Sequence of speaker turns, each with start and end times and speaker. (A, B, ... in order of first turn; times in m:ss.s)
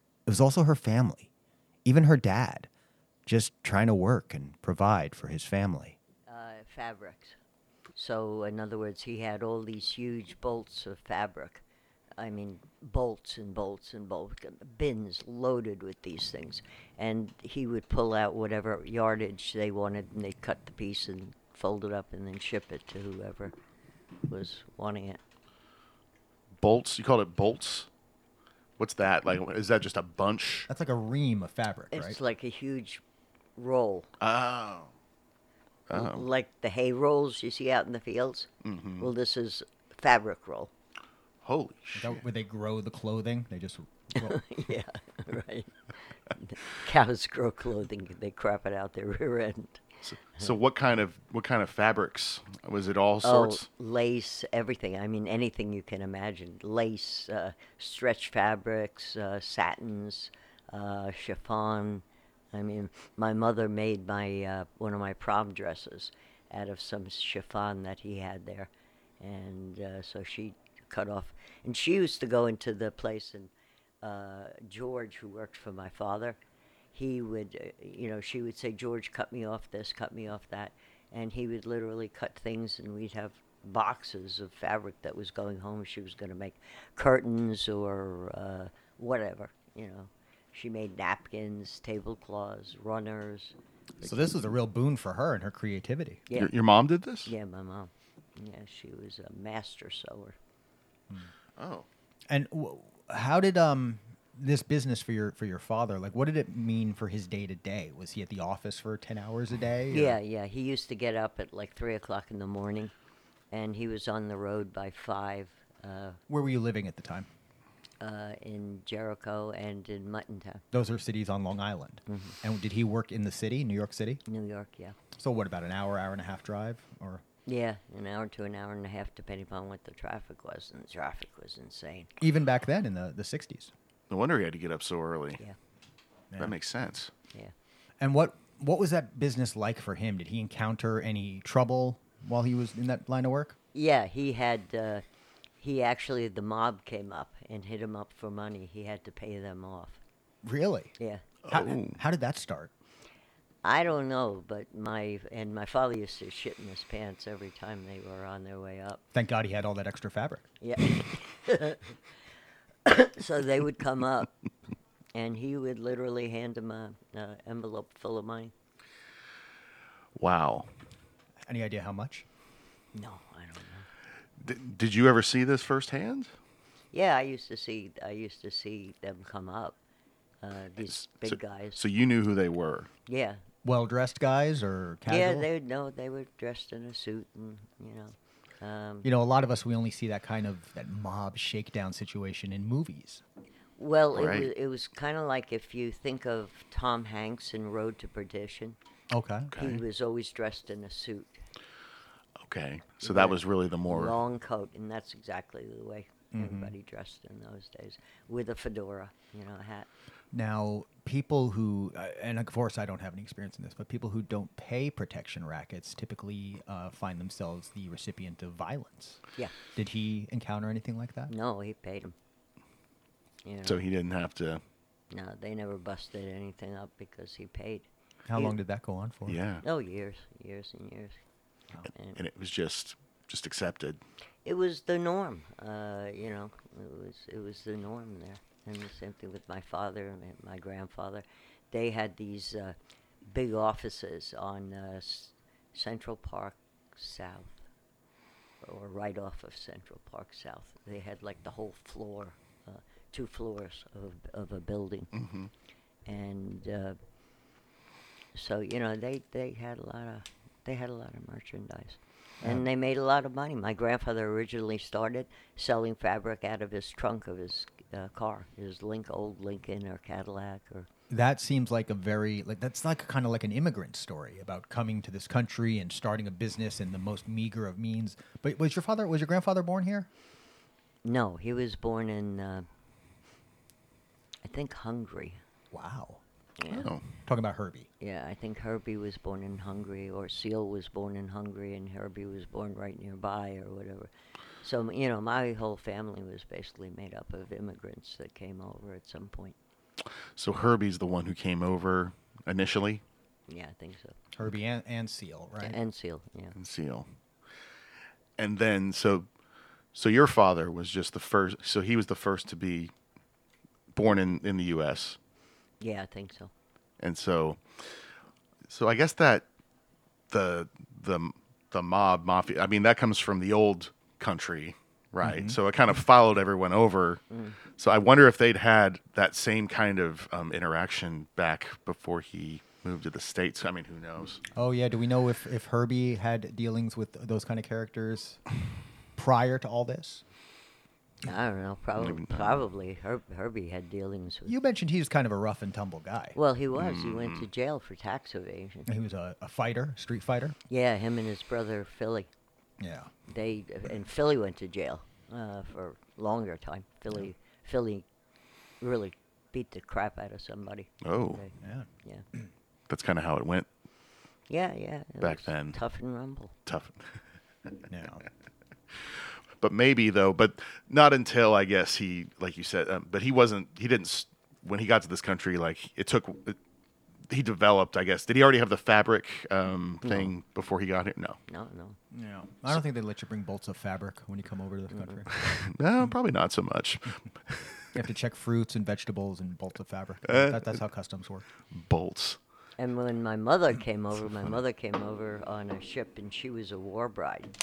0:00.2-0:01.3 A
0:01.8-0:02.7 A
0:03.2-0:06.0 A
0:06.3-0:07.4 B
0:07.9-0:11.6 B
0:12.2-0:23.5 B
0:24.2-0:25.2 B
0:26.6-0:27.9 C
0:28.8-0:30.7 C
0:30.7-0:32.2 A
0:31.9-0:33.0 B
0:33.6-0:34.1 B
0:34.2-0:34.9 C
0:35.9-0:36.2 C
0:35.9-0:40.7 B
0:38.6-0:39.1 C
0:41.4-0:42.2 C
0:41.9-0:44.4 A
0:44.2-0:49.8 B
0:50.1-0:53.6 C
0:53.2-1:13.5 B
1:14.0-1:16.4 B
1:16.9-1:34.3 B
1:34.0-1:36.2 A
1:36.3-1:37.3 C
1:37.2-1:40.4 B
1:41.6-1:41.9 C
1:42.3-1:50.2 A
1:49.9-1:52.9 B
1:53.5-1:56.2 B
1:56.3-1:57.3 A
1:58.0-2:00.6 B
2:00.7-2:04.2 A
2:02.1-2:02.4 B
2:04.2-2:05.0 B
2:05.2-2:07.2 A
2:07.4-2:12.1 B
2:12.2-2:13.7 A
2:14.1-2:15.4 C
2:16.4-2:17.1 C
2:18.0-2:23.6 A
2:23.7-2:25.0 B
2:25.6-2:30.0 B
2:30.4-2:30.9 A
2:31.0-2:31.2 B
2:31.4-2:32.0 C
2:31.5-2:32.7 A
2:33.6-2:39.0 B
2:39.1-2:40.4 A
2:40.6-2:42.0 B
2:42.8-2:44.3 B
2:45.1-2:48.5 B
2:50.2-2:50.7 C
2:51.4-2:52.2 A
2:52.9-2:53.9 B
2:54.4-2:56.3 C
2:56.9-2:59.8 B
3:00.4-3:01.8 B
3:00.9-3:02.9 C
3:03.1-3:03.4 B
3:03.6-3:05.5 A
3:05.1-3:09.1 B
3:09.0-3:13.2 A
3:13.8-3:18.8 B
3:14.1-3:14.5 C
3:19.1-3:19.5 A
3:19.5-3:19.8 C
3:19.6-3:21.4 B
3:22.4-3:24.2 C
3:23.0-3:29.9 B
3:26.3-3:26.7 A
3:30.3-3:39.2 A
3:39.7-3:41.3 A
3:41.3-3:42.1 B
3:43.4-3:43.8 B
3:43.6-3:44.6 C
3:45.1-3:48.5 B
3:48.3-3:49.4 A
3:49.3-3:49.6 C
3:49.6-3:51.2 B
3:51.8-3:52.2 B
3:52.2-3:54.0 C
3:54.4-4:07.6 B
4:08.6-4:15.1 B
4:15.1-4:15.5 C
4:16.0-4:17.0 B
4:18.3-4:30.9 B
4:22.4-4:22.7 A
4:31.1-4:40.1 A
4:41.0-4:42.7 B
4:44.4-4:45.4 B
4:45.7-4:46.2 A
4:46.6-4:46.9 B
4:46.7-4:47.0 C
4:47.2-4:47.9 A
4:48.0-4:54.1 B
4:54.6-4:59.6 B
5:00.3-5:03.0 C
5:03.5-5:04.2 B
5:04.3-5:05.8 A
5:05.6-5:06.6 B
5:06.6-5:07.1 C
5:08.4-5:09.3 C
5:09.9-5:12.9 C
5:13.9-5:15.2 C
5:15.8-5:16.5 B
5:17.0-5:17.9 C
5:18.7-5:19.4 C
5:20.3-5:27.2 C
5:25.2-5:25.6 A
5:27.3-5:27.6 B
5:27.8-5:34.4 C
5:34.5-5:38.4 A
5:39.1-5:40.2 A
5:41.2-5:44.6 B
5:42.0-5:42.6 C
5:44.4-5:46.4 A
5:46.4-5:48.9 B
5:46.7-5:47.5 C
5:48.9-5:50.6 A
5:50.7-5:52.3 B
5:52.8-5:53.1 A
5:53.3-5:58.0 B
5:58.8-6:02.2 B
6:01.0-6:01.4 C
6:01.6-6:01.9 A
6:02.9-6:03.7 C
6:04.5-6:06.5 B
6:05.2-6:05.8 C
6:06.6-6:07.2 C
6:07.9-6:08.2 A
6:08.9-6:16.6 C
6:17.3-6:21.4 C
6:20.0-6:20.3 B
6:21.5-6:22.0 B
6:22.1-6:25.3 A
6:24.9-6:25.2 B
6:25.3-6:27.7 C
6:27.9-6:31.4 A
6:31.7-6:32.4 C
6:32.8-6:37.5 B